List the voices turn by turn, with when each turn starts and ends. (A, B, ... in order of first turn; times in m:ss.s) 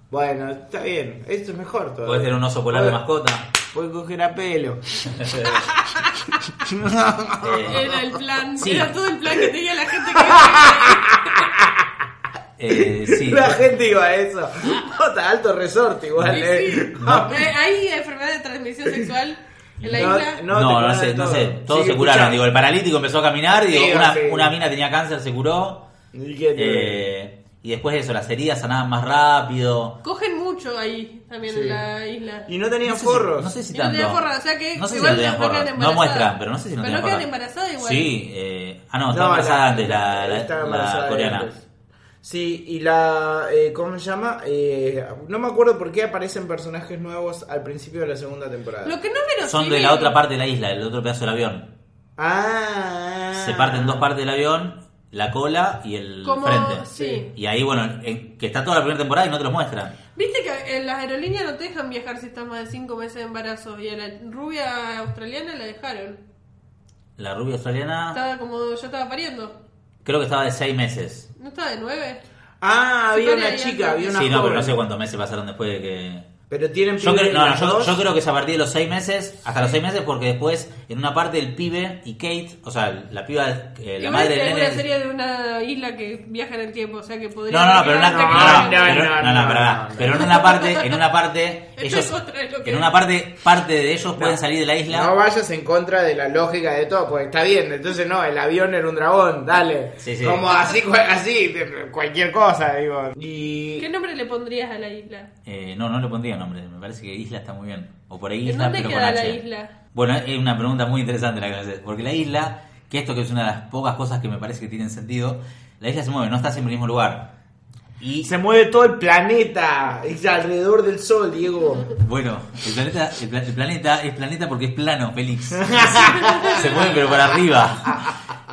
0:00.1-0:03.0 A
0:02.0-0:03.5 B
0:03.7-0:08.0 A
0:05.2-0:05.6 B
0:07.4-0:07.9 B
0:07.7-0:11.5 C
0:08.6-0:09.0 B
0:10.0-0:12.0 A
0:12.6-0:13.6 B
0:12.7-0:17.4 A
0:16.2-0:20.4 C
0:17.0-0:17.3 B
0:19.8-0:25.8 B
0:19.9-0:22.4 A
0:23.5-0:24.6 A
0:26.1-0:27.1 A
0:26.6-0:30.0 B
0:30.0-0:32.5 C
0:31.5-0:31.8 A
0:32.5-0:33.6 A
0:32.9-0:37.3 B
0:33.7-0:38.1 C
0:37.8-0:41.5 B
0:39.1-0:41.6 A
0:42.2-0:49.0 A
0:48.8-0:50.2 C
0:49.4-0:51.7 B
0:52.2-0:54.1 A
0:53.3-1:00.0 B
0:56.2-0:57.3 C
0:56.9-0:57.2 A
1:00.2-1:06.2 C
1:07.2-1:08.2 B
1:08.1-1:09.6 C
1:10.0-1:11.3 B
1:11.4-1:12.2 C
1:12.6-1:14.8 A
1:13.1-1:14.4 C
1:14.1-1:16.3 B
1:16.5-1:18.0 A
1:17.0-1:24.8 B
1:24.0-1:29.1 C
1:27.5-1:35.1 B
1:28.0-1:30.4 A
1:30.2-1:31.0 C
1:31.8-1:32.9 C
1:34.2-1:43.9 A
1:40.0-1:40.5 B
1:43.8-1:45.3 C
1:45.5-1:49.4 B
1:48.4-1:49.7 C
1:49.9-1:57.3 B
1:58.0-1:58.3 B
1:58.2-2:01.9 A
2:02.0-2:08.2 B
2:05.7-2:07.0 A